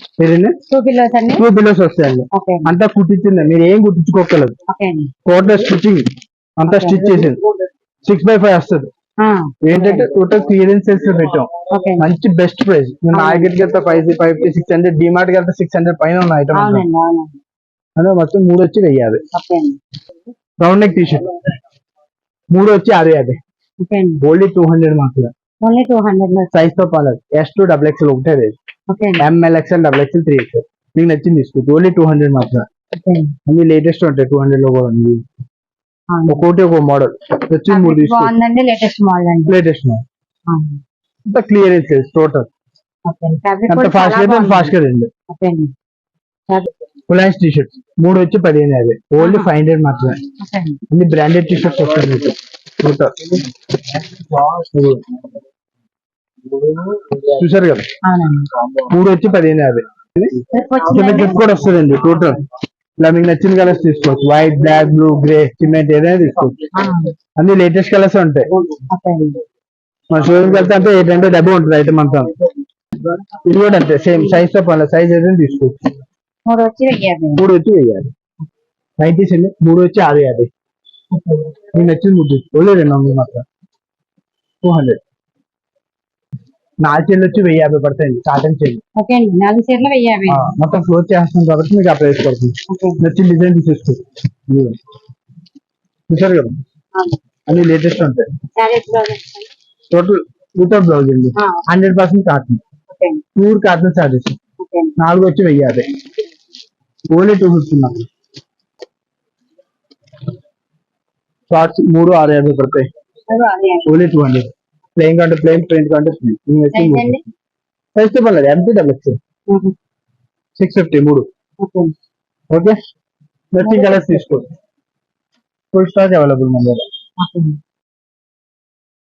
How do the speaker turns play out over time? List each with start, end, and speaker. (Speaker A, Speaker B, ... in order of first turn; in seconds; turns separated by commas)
Speaker A: 0.2-0.6, Speaker B: 0.7-1.4, Speaker A: 1.4-4.5, Speaker B: 2.3-2.7, Speaker B: 4.7-5.1, Speaker A: 5.2-7.4, Speaker B: 6.7-7.1, Speaker A: 8.0-8.9, Speaker B: 9.2-10.1, Speaker A: 9.6-16.8, Speaker B: 11.7-12.1, Speaker B: 13.1-13.5, Speaker B: 16.5-17.4, Speaker A: 18.0-19.2, Speaker B: 19.3-19.8, Speaker A: 20.6-21.3, Speaker A: 22.5-23.4, Speaker B: 23.8-24.2, Speaker A: 24.2-25.3, Speaker B: 25.6-26.5, Speaker A: 26.5-28.5, Speaker B: 28.9-29.2, Speaker A: 29.2-32.6, Speaker B: 33.0-33.3, Speaker A: 33.5-35.2, Speaker B: 36.1-36.4, Speaker A: 36.3-38.3, Speaker B: 37.7-39.5, Speaker A: 39.5-40.0, Speaker B: 40.5-40.8, Speaker A: 41.2-42.5, Speaker B: 43.0-44.7, Speaker A: 43.7-45.1, Speaker B: 45.3-45.7, Speaker A: 47.1-50.2, Speaker B: 49.2-49.5, Speaker B: 50.4-50.8, Speaker A: 50.9-53.4, Speaker A: 54.4-55.0, Speaker A: 57.4-57.9, Speaker B: 58.0-58.5, Speaker A: 58.8-60.4, Speaker B: 60.5-61.5, Speaker A: 60.9-62.4, Speaker A: 63.0-66.6, Speaker B: 66.7-67.1, Speaker A: 67.4-68.5, Speaker B: 68.6-69.4, Speaker A: 70.1-72.3, Speaker A: 73.4-75.8, Speaker B: 76.5-77.4, Speaker A: 77.3-78.1, Speaker A: 79.0-80.5, Speaker B: 81.1-81.6, Speaker A: 81.7-83.4, Speaker A: 84.6-85.0, Speaker A: 86.8-88.8, Speaker B: 89.0-90.5, Speaker A: 90.3-94.8, Speaker B: 92.7-93.0, Speaker A: 96.1-96.5, Speaker A: 97.5-98.3, Speaker B: 98.5-99.5, Speaker A: 99.9-102.6, Speaker B: 101.4-101.6, Speaker B: 102.9-103.2, Speaker A: 103.3-104.4, Speaker B: 104.6-105.0, Speaker A: 105.0-105.9, Speaker A: 107.1-108.1, Speaker A: 111.5-112.9, Speaker B: 113.3-114.0, Speaker A: 113.8-117.2, Speaker B: 116.7-117.2, Speaker A: 117.9-119.2, Speaker B: 119.5-119.7, Speaker A: 120.6-121.3, Speaker B: 121.6-121.9, Speaker A: 122.5-122.8, Speaker A: 123.5-124.5, Speaker B: 123.6-124.4, Speaker A: 125.7-126.8, Speaker B: 127.2-127.6